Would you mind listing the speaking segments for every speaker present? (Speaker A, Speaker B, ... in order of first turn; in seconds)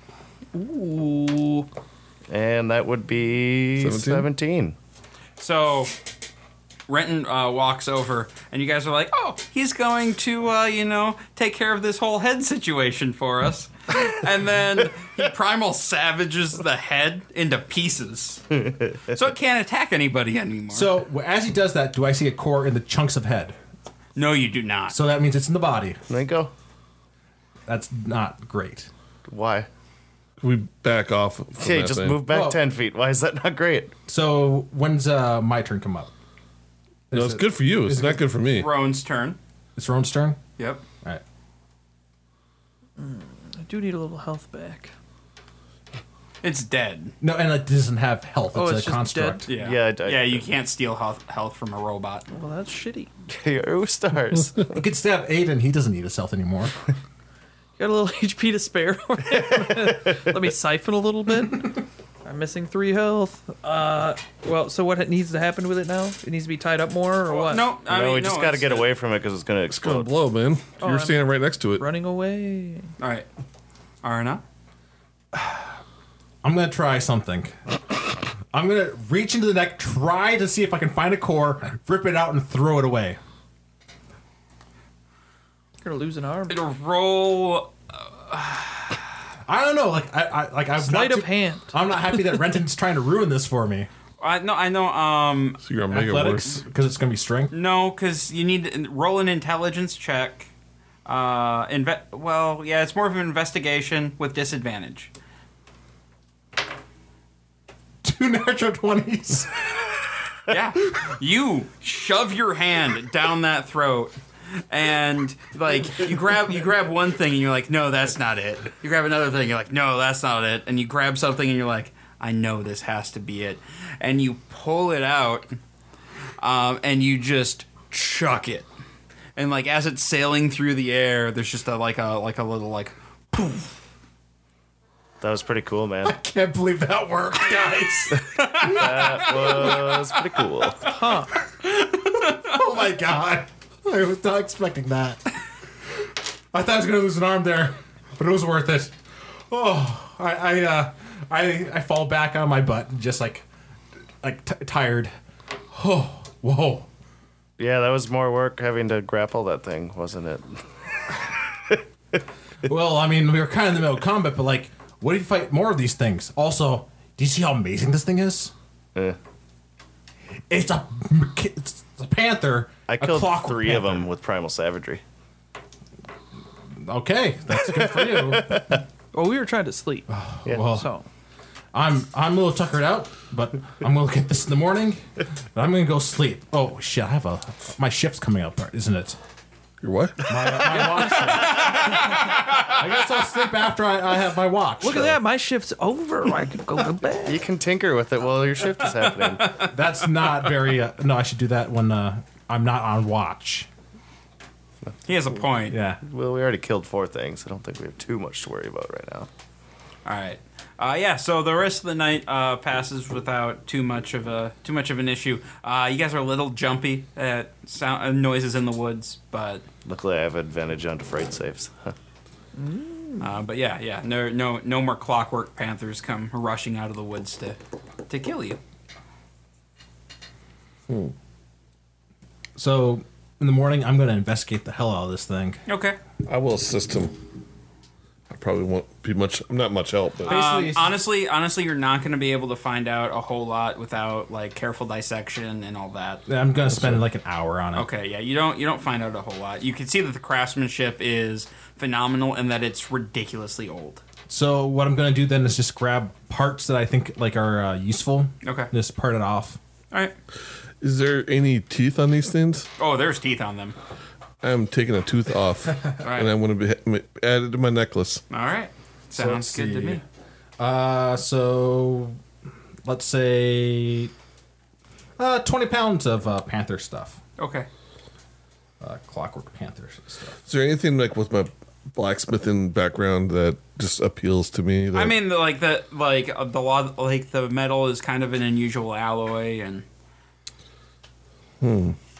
Speaker A: 0.5-1.7, 43.0-44.9, 48.5-49.5, 52.3-53.1, 57.8-67.7, 70.8-71.2, 71.8-72.9, 85.8-86.6, 90.8-92.4, 140.8-141.3, 179.1-180.1, 180.7-181.1, 194.8-197.4, 222.6-223.2
Speaker B: 2.3-4.8, 18.6-19.0, 26.1-26.5, 29.3-29.7, 31.6-33.9, 49.5-50.5, 53.3-54.8, 59.7-60.2, 67.8-70.1, 135.2-136.1, 138.2-140.9, 157.6-161.8, 172.9-175.0, 177.8-178.8, 197.2-199.6, 206.0-209.3, 219.8-221.9
Speaker C: 3.8-4.3, 30.4-32.3, 37.1-38.7, 69.8-71.8, 95.6-96.6, 189.8-190.3, 230.9-231.1, 236.2-237.2, 238.3-240.4, 246.7-247.0, 260.8-262.7, 264.4-268.2, 280.4-285.2, 291.6-291.9
Speaker D: 5.4-5.9, 6.9-18.5, 19.1-20.9, 24.1-24.9, 38.5-39.4, 40.6-40.8, 46.4-47.1, 49.5-52.2, 67.3-68.9, 73.0-73.2, 74.0-74.4, 86.5-89.0, 94.2-95.6, 97.5-100.5, 101.0-105.1, 110.5-114.1, 114.7-125.6, 126.4-128.7, 129.4-133.7, 138.4-139.2, 142.1-142.5, 191.1-192.7, 199.4-199.7, 205.0-205.8, 210.0-219.7, 223.2-228.6, 235.7-236.0, 240.2-246.2, 247.7-254.0, 258.4-258.7, 262.8-263.8, 266.0-266.3, 268.3-270.0, 277.4-277.7, 284.9-289.8
Speaker E: 20.7-23.6, 24.9-26.0, 27.7-28.9, 32.3-32.6, 34.1-36.1, 37.1-38.2, 39.8-40.4, 47.2-49.5, 54.7-56.8, 75.3-75.8, 76.4-77.5, 78.5-83.2, 89.5-93.9, 95.9-97.5, 108.0-109.9, 136.0-139.9, 141.9-145.3, 146.5-148.9, 149.5-153.4, 154.2-155.1, 155.7-156.9, 162.6-168.5, 170.5-174.1, 176.8-178.8, 180.1-180.9, 181.7-185.0, 185.5-189.2, 190.3-195.2, 199.6-203.7, 205.7-206.0, 232.6-235.6, 240.2-240.9, 246.3-247.9, 254.3-259.6, 269.1-270.0, 270.6-272.2, 272.8-274.1, 275.2-277.2, 278.8-280.4